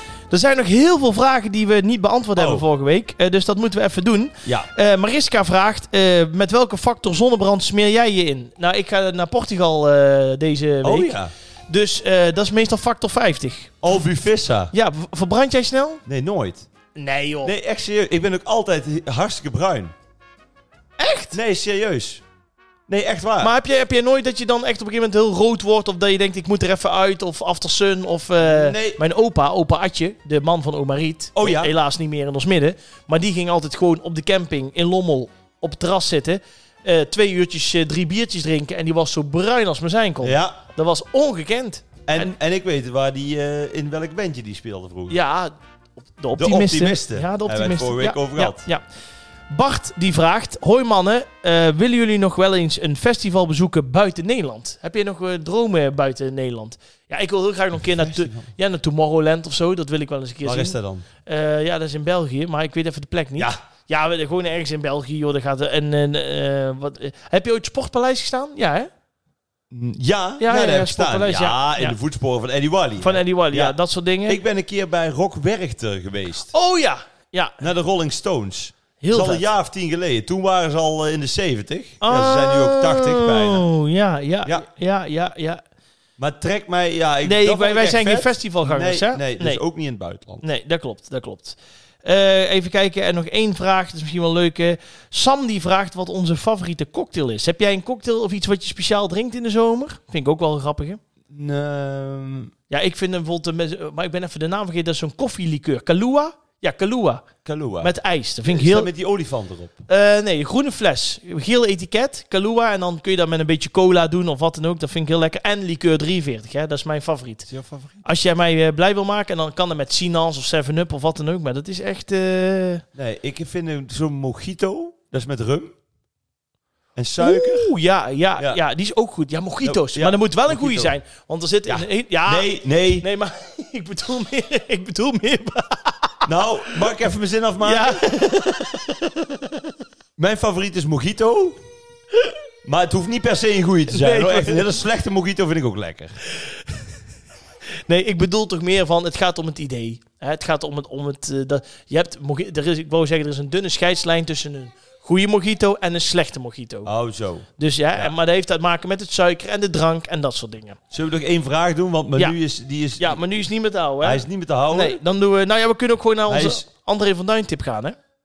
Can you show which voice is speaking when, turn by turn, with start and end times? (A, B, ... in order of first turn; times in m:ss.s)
0:00.3-0:11.1 A
0:02.4-0:02.6 B
0:04.4-0:04.7 B
0:10.8-0:11.3 B
0:11.7-0:13.7 A
0:13.8-0:14.7 B
0:14.7-0:16.0 A
0:16.0-0:16.7 B
0:17.0-0:17.5 A
0:17.4-0:19.9 B
0:21.0-0:21.4 A
0:21.3-0:22.2 B
0:22.9-0:23.5 B
0:23.4-0:42.3 A
0:28.4-0:29.0 B
0:31.4-0:31.7 B
0:40.2-0:40.6 B
0:42.1-0:45.2 B
0:45.1-0:45.5 A
0:46.2-0:48.8 A
0:46.3-0:48.6 B
0:49.5-1:08.9 A
0:57.8-0:58.5 B
1:00.4-1:01.0 B
1:09.7-1:16.5 B
1:10.4-1:12.0 A
1:13.0-1:14.4 A
1:16.5-1:17.6 A
1:17.6-1:23.7 B
1:19.0-1:19.4 A
1:22.0-1:25.6 A
1:26.2-1:30.4 B
1:27.2-1:29.6 A
1:30.4-1:41.0 A
1:41.3-1:42.5 B
1:42.7-1:47.2 A
1:47.4-1:47.9 B
1:47.8-1:48.9 A
1:48.4-1:49.8 B
1:49.9-1:57.5 A
1:57.5-1:58.0 B
1:58.0-2:02.8 A
2:03.0-2:05.7 B
2:07.0-2:07.7 B
2:07.2-2:16.2 A
2:09.6-2:10.9 B
2:11.7-2:13.0 B
2:16.2-2:18.1 B
2:17.6-2:19.5 A
2:20.2-2:21.6 B
2:22.6-2:26.2 B
2:23.9-2:24.7 A
2:27.9-2:36.9 A
2:36.8-2:38.1 B
2:37.6-2:40.8 A
2:40.9-2:43.3 B
2:43.0-2:48.0 A
2:44.0-2:45.0 B
2:46.3-2:46.6 B